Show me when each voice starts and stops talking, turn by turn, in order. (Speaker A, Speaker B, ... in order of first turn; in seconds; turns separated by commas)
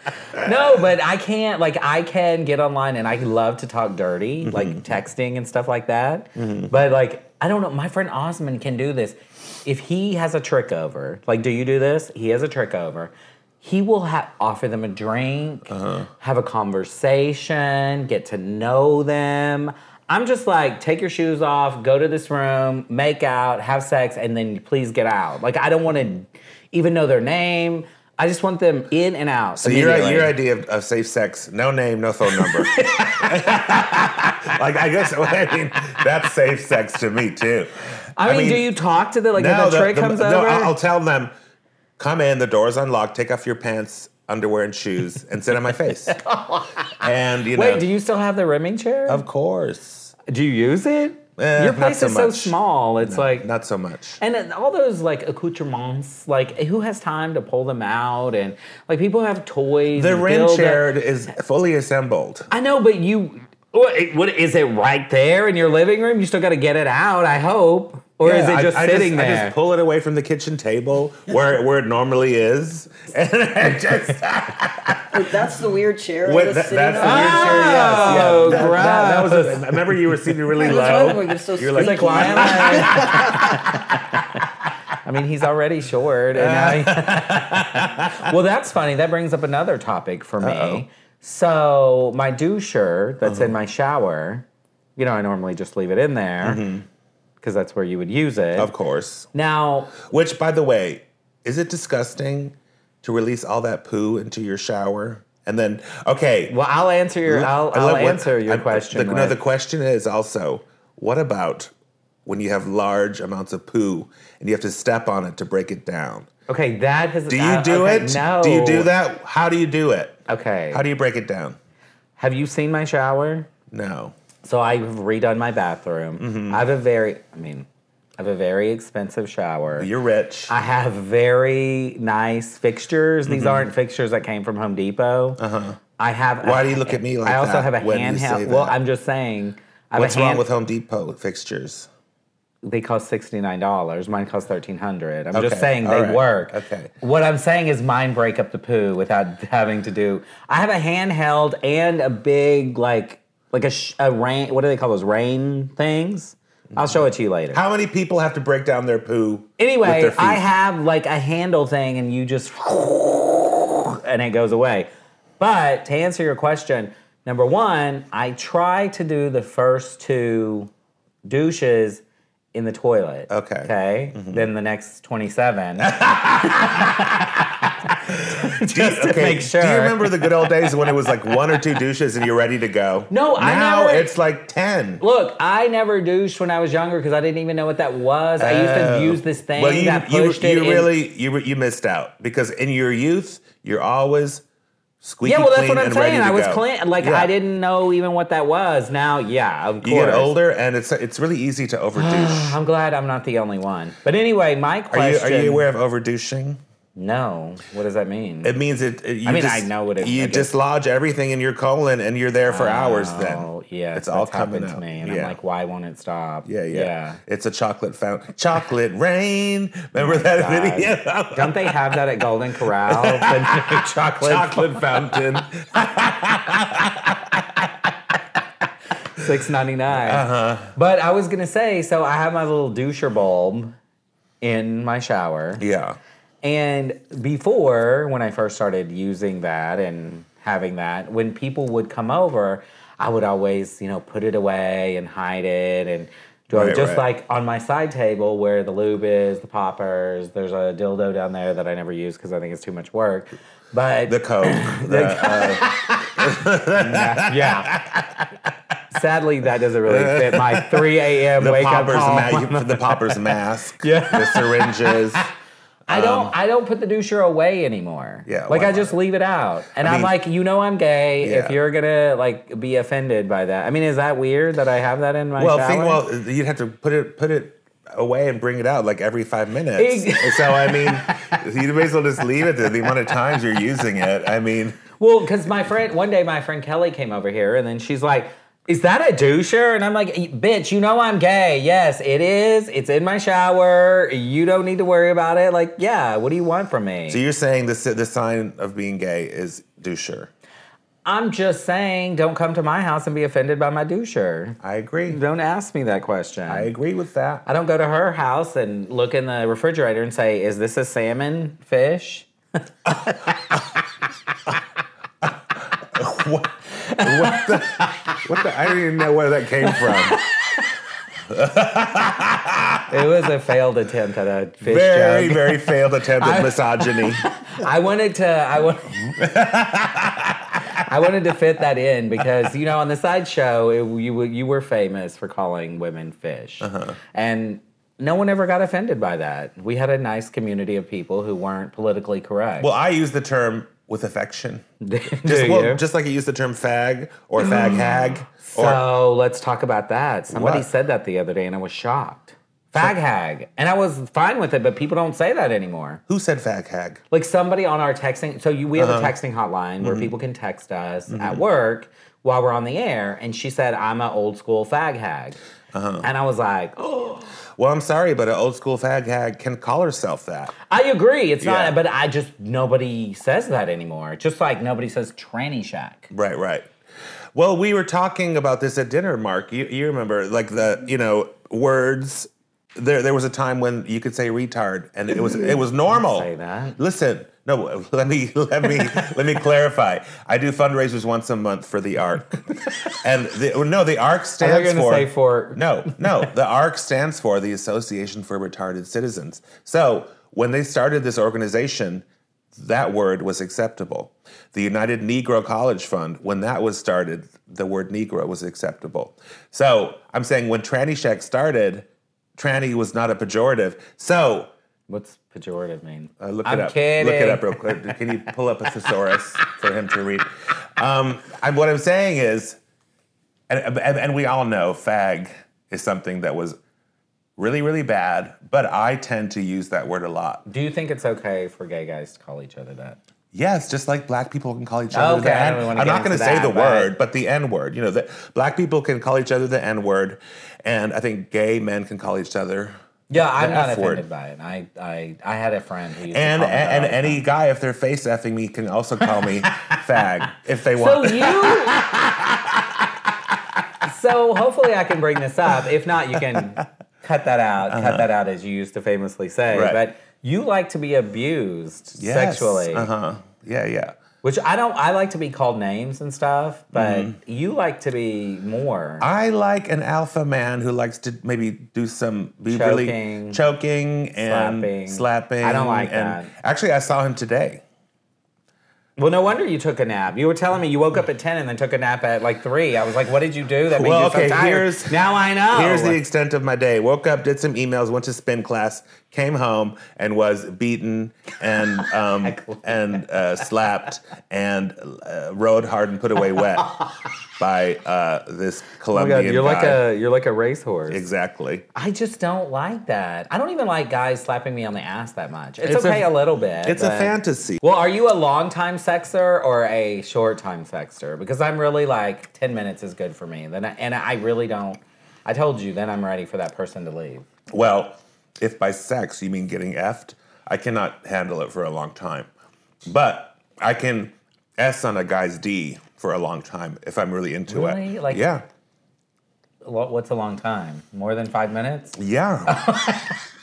Speaker A: 0.3-30.3, Speaker B: 4.4-4.8, Speaker B: 6.4-6.7, Speaker B: 15.7-16.1, Speaker B: 29.6-38.7, Speaker A: 32.3-34.3, Speaker A: 38.2-40.8, Speaker B: 39.4-41.3, Speaker B: 42.0-46.2, Speaker A: 46.1-46.9, Speaker B: 47.0-47.9, Speaker A: 47.5-49.2, Speaker B: 49.1-50.1, Speaker A: 50.3-53.5, Speaker B: 51.4-54.2, Speaker A: 54.2-60.9, Speaker B: 59.9-62.5, Speaker A: 62.5-69.6, Speaker B: 68.2-75.2, Speaker C: 75.1-78.8, Speaker B: 76.2-84.0, Speaker A: 77.0-79.7, Speaker C: 80.5-83.5, Speaker A: 81.8-84.0, Speaker A: 85.0-96.6, Speaker B: 86.3-88.3, Speaker B: 90.4-90.8, Speaker B: 93.2-93.5, Speaker B: 96.4-96.8, Speaker A: 97.4-98.7, Speaker B: 98.6-99.3, Speaker A: 99.3-100.0, Speaker B: 100.0-106.5, Speaker A: 106.5-109.4, Speaker B: 107.3-111.7, Speaker B: 112.3-116.3, Speaker A: 116.5-118.9, Speaker B: 117.3-120.2, Speaker A: 120.3-120.8, Speaker B: 120.7-121.6, Speaker A: 122.2-123.5, Speaker B: 123.7-124.2, Speaker A: 124.4-127.7, Speaker B: 126.2-126.6, Speaker A: 128.2-129.9, Speaker B: 129.8-130.5, Speaker A: 130.5-135.4, Speaker B: 133.2-133.7, Speaker B: 135.4-135.8, Speaker A: 136.0-140.4, Speaker B: 136.4-138.8, Speaker B: 139.9-141.9, Speaker A: 142.6-157.6, Speaker B: 145.3-146.9, Speaker B: 157.5-160.4, Speaker A: 159.6-170.7, Speaker A: 171.2-172.0, Speaker A: 172.5-177.3, Speaker B: 173.3-174.5, Speaker B: 175.8-177.5, Speaker A: 177.9-180.8, Speaker B: 178.1-185.0, Speaker A: 183.1-184.1, Speaker A: 185.0-190.9, Speaker B: 188.4-194.4, Speaker B: 195.0-197.3, Speaker A: 195.2-200.4, Speaker B: 199.8-202.6, Speaker A: 201.9-205.7, Speaker B: 204.9-206.6, Speaker A: 206.9-208.6, Speaker B: 208.4-215.4, Speaker A: 209.2-210.5, Speaker A: 212.5-217.2, Speaker B: 216.5-222.0, Speaker A: 220.0-225.2, Speaker B: 222.8-228.2, Speaker A: 229.2-233.8, Speaker B: 229.9-230.7, Speaker A: 234.4-235.6, Speaker B: 235.6-236.0, Speaker A: 236.4-256.1, Speaker B: 246.5-247.1, Speaker B: 254.1-258.3, Speaker A: 256.7-257.8, Speaker A: 258.9-265.3, Speaker B: 259.9-265.3, Speaker B: 265.9-266.3, Speaker A: 265.9-276.0, Speaker B: 268.3-268.9, Speaker B: 269.8-270.1, Speaker B: 271.2-271.6, Speaker B: 275.4-284.8, Speaker A: 279.8-281.3, Speaker A: 285.0-297.2, Speaker B: 297.1-300.3, Speaker A: 301.1-306.7, Speaker B: 304.6-305.2, Speaker B: 306.5-307.4, Speaker A: 307.5-312.3, Speaker B: 315.8-320.2, Speaker A: 316.8-318.2, Speaker A: 319.6-320.7, Speaker B: 321.3-322.9, Speaker A: 322.9-329.3, Speaker B: 324.6-327.2, Speaker B: 329.2-330.7, Speaker A: 330.8-342.7, Speaker B: 336.6-337.0, Speaker B: 342.6-344.6, Speaker A: 344.8-345.8, Speaker B: 345.2-348.8, Speaker A: 347.4-356.0, Speaker B: 350.3-350.7, Speaker B: 356.1-357.0, Speaker A: 357.1-365.4, Speaker B: 358.8-359.1, Speaker B: 359.8-360.1, Speaker B: 361.1-361.4, Speaker B: 365.7-366.1, Speaker A: 366.0-367.3, Speaker B: 367.6-370.5, Speaker A: 370.7-376.1, Speaker B: 371.4-371.8, Speaker B: 376.1-376.7, Speaker B: 377.3-414.5, Speaker A: 385.9-386.8, Speaker A: 394.4-396.3, Speaker A: 414.9-418.0, Speaker B: 416.2-422.6, Speaker B: 423.5-426.6, Speaker B: 427.4-430.4, Speaker A: 430.5-433.0, Speaker B: 433.3-444.1, Speaker A: 434.9-436.9, Speaker A: 443.1-447.2, Speaker B: 446.1-453.1, Speaker A: 450.7-451.9, Speaker A: 453.8-462.9, Speaker B: 457.7-458.1, Speaker B: 459.5-459.8, Speaker B: 462.0-464.0, Speaker A: 464.2-469.1, Speaker B: 466.7-467.2, Speaker B: 469.0-477.6, Speaker A: 472.5-473.4, Speaker A: 474.2-476.3, Speaker A: 479.0-486.0, Speaker B: 483.7-496.9, Speaker A: 492.2-493.0, Speaker B: 497.4-499.8, Speaker A: 498.9-501.0, Speaker B: 500.9-501.6, Speaker A: 501.7-517.3, Speaker B: 505.6-507.6, Speaker B: 517.5-522.3, Speaker B: 522.9-528.4, Speaker A: 527.5-528.3, Speaker A: 529.6-533.2, Speaker B: 532.0-532.6